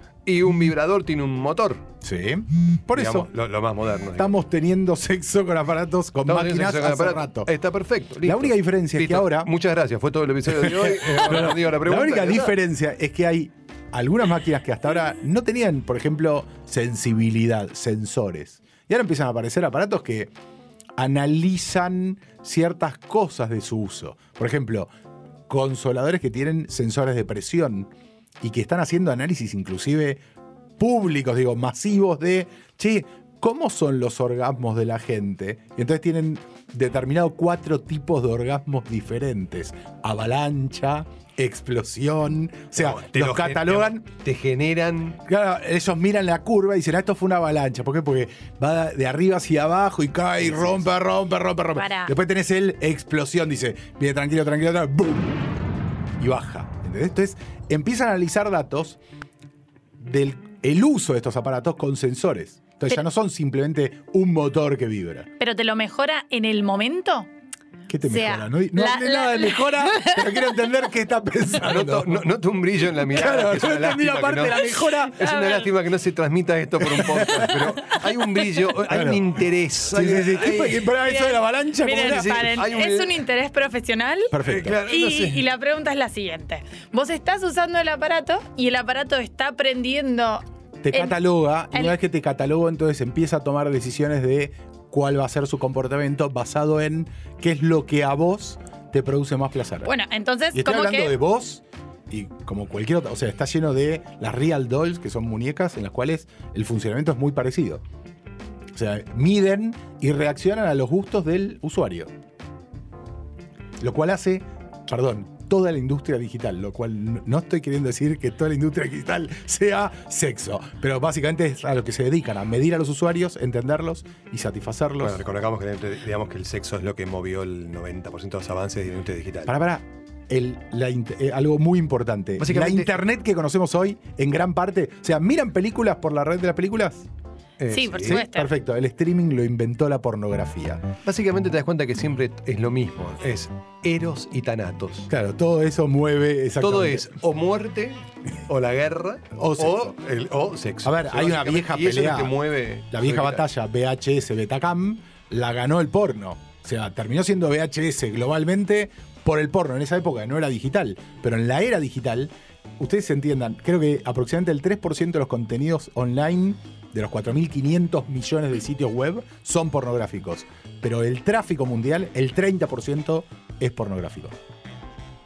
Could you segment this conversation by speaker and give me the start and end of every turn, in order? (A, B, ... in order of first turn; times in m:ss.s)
0:00.2-0:01.8 A
0:02.0-0:03.3 B
0:02.9-0:04.3 A
0:04.2-0:07.5 B
0:06.2-0:12.6 A
0:08.2-0:09.5 B
0:10.5-0:20.3 B
0:21.0-0:24.9 B
0:25.5-0:27.9 B
0:28.4-0:30.2 B
0:30.8-0:44.0 B
0:42.7-0:45.2 A
0:45.3-0:55.4 B
0:50.5-0:50.8 A
0:51.7-0:52.1 C
0:56.2-0:59.0 B
1:00.0-1:05.3 B
1:05.4-1:07.3 C
1:07.9-1:12.2 B
1:08.0-1:10.7 C
1:11.6-1:20.9 A
1:13.1-1:15.2 B
1:14.7-1:15.7 C
1:16.8-1:17.8 B
1:18.9-1:19.4 B
1:19.9-1:22.5 B
1:20.9-1:32.0 C
1:21.9-1:23.2 A
1:24.3-1:24.8 B
1:24.4-1:25.4 A
1:30.8-1:39.9 B
1:39.8-1:41.2 C
1:40.5-1:47.8 B
1:48.7-1:52.1 B
1:53.8-2:05.2 B
2:05.0-2:09.5 A
2:09.5-2:17.1 B
2:12.4-2:13.0 A
2:17.6-2:18.2 A
2:17.7-2:18.5 C
2:18.0-2:20.8 B
2:21.0-2:25.1 A
2:25.1-2:27.1 B
2:26.6-2:33.5 A
2:29.3-2:29.9 B
2:30.8-2:32.4 B
2:32.9-2:54.3 B